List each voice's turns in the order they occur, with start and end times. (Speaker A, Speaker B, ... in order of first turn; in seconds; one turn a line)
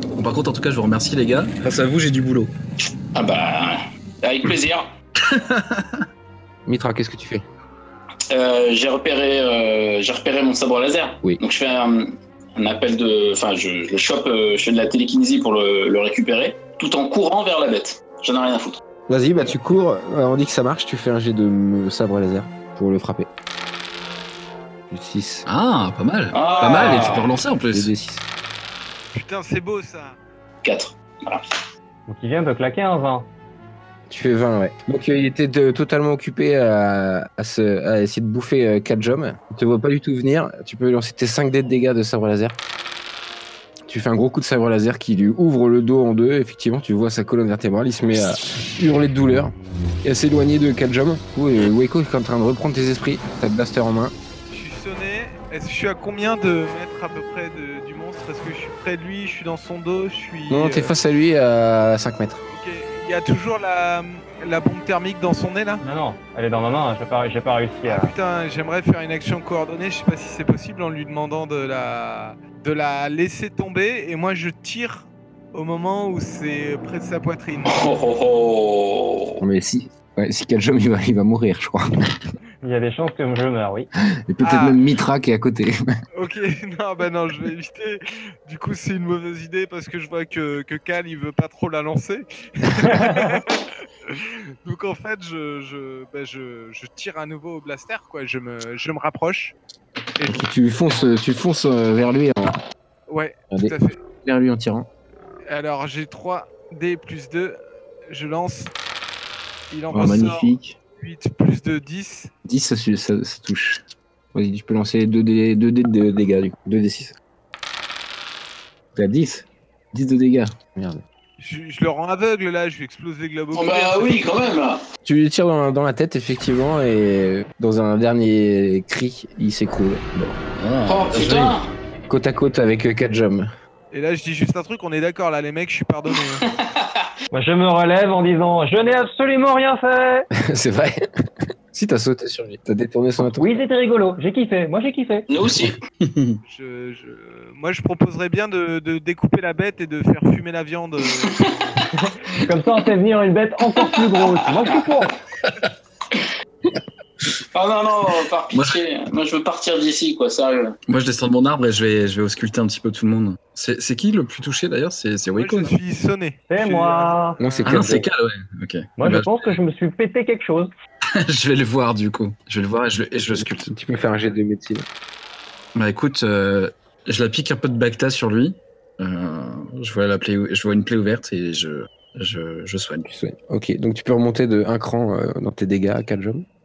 Speaker A: 0.1-2.5
Speaker B: 3.1-4.9
Speaker A: 5.2-6.0
Speaker C: 6.7-7.4
Speaker B: 8.3-18.8
Speaker C: 19.1-23.3
Speaker C: 24.9-25.4
Speaker A: 25.4-27.9
Speaker B: 26.3-27.3
Speaker C: 26.6-28.2
Speaker D: 29.1-30.2
Speaker B: 30.6-31.4
Speaker E: 32.1-33.3
Speaker C: 34.1-42.6
Speaker C: 43.9-54.1
Speaker D: 54.5-60.9
Speaker C: 60.5-62.4
Speaker D: 62.5-65.8
Speaker E: 65.8-68.1
Speaker D: 67.8-78.0
Speaker B: 77.7-79.4
Speaker C: 79.4-82.2
Speaker E: 82.6-83.9
Speaker C: 84.3-85.8
Speaker D: 84.4-84.8
Speaker D: 86.1-99.5
Speaker C: 100.2-102.6
Speaker D: 103.1-104.0
Speaker C: 103.5-104.9
Speaker D: 105.5-107.6
Speaker D: 108.1-108.7
Speaker D: 109.7-112.3
Speaker C: 109.9-110.7
Speaker C: 112.4-113.8
Speaker C: 114.3-117.1
Speaker C: 118.9-121.0
Speaker D: 121.4-124.4
Speaker B: 123.5-124.8
Speaker C: 125.0-130.4
Speaker A: 130.6-131.6
Speaker B: 130.9-131.7
Speaker C: 132.1-133.5
Speaker D: 133.9-136.5
Speaker B: 136.5-137.1
Speaker E: 137.3-140.3
Speaker C: 140.4-141.0
Speaker C: 141.7-143.5
Speaker E: 143.3-145.3
Speaker B: 145.3-145.8
Speaker A: 146.0-146.4
Speaker D: 146.4-151.8
Speaker B: 151.2-151.5
Speaker E: 151.9-155.1
Speaker B: 154.1-154.4
Speaker B: 157.5-160.8
Speaker A: 158.5-158.8
Speaker A: 160.9-165.7
Speaker D: 165.3-167.8
Speaker E: 166.5-167.4
Speaker C: 167.4-168.1
Speaker A: 167.7-169.6
Speaker E: 169.0-170.7
Speaker A: 171.1-173.6
Speaker C: 173.3-174.8
Speaker A: 175.7-183.1
Speaker C: 183.1-186.4